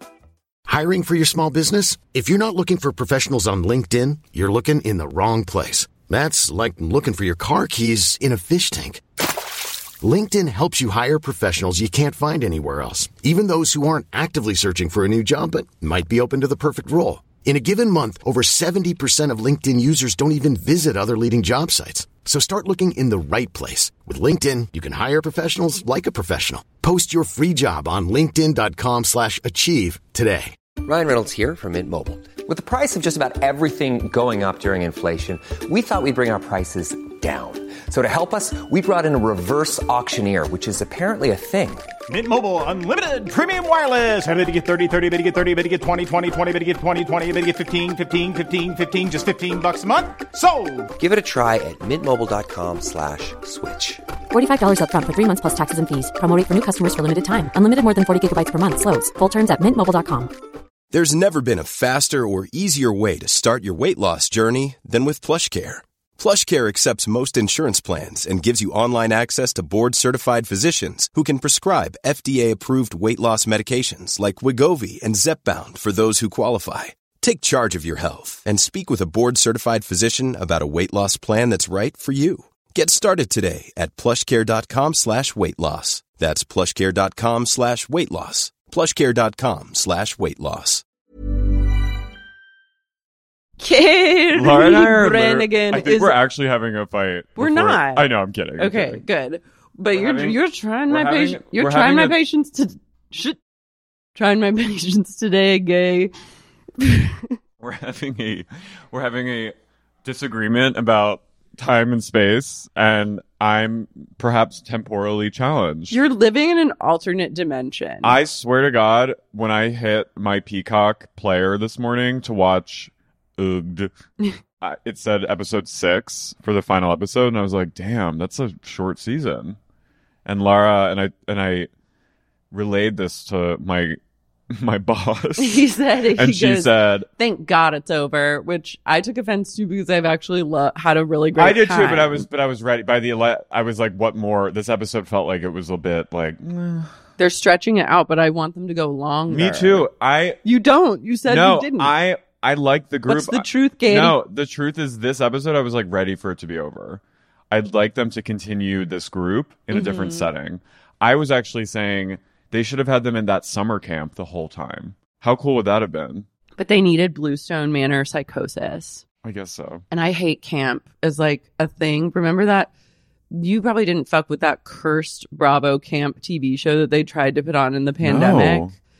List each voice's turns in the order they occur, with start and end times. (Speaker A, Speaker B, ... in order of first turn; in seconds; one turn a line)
Speaker A: 0.7-9.0
Speaker A: 10.0-30.5
Speaker B: 30.8-41.9
Speaker C: 42.1-50.9
Speaker B: 51.0-54.0
Speaker D: 54.3-60.3
Speaker E: 60.9-90.8
Speaker F: 93.6-96.2
Speaker G: 94.3-99.0
Speaker F: 97.4-98.1
Speaker F: 98.6-103.4
Speaker G: 99.9-102.2
Speaker F: 104.2-106.1
Speaker F: 106.8-107.3
Speaker G: 107.6-109.5
Speaker G: 110.0-116.0
Speaker F: 115.9-118.2
Speaker G: 118.0-123.9
Speaker G: 124.6-129.6
Speaker G: 130.3-131.7
Speaker G: 132.5-134.0
Speaker G: 134.5-137.1
Speaker F: 135.4-142.3
Speaker G: 141.4-146.9
Speaker F: 147.2-149.9
Speaker G: 149.3-150.4
Speaker F: 150.4-151.9
Speaker G: 151.3-166.3
Speaker F: 153.1-154.2
Speaker F: 159.7-160.3
Speaker F: 166.6-169.0
Speaker G: 169.2-169.8
Speaker F: 169.9-172.7
Speaker F: 173.3-178.7
Speaker G: 178.0-178.7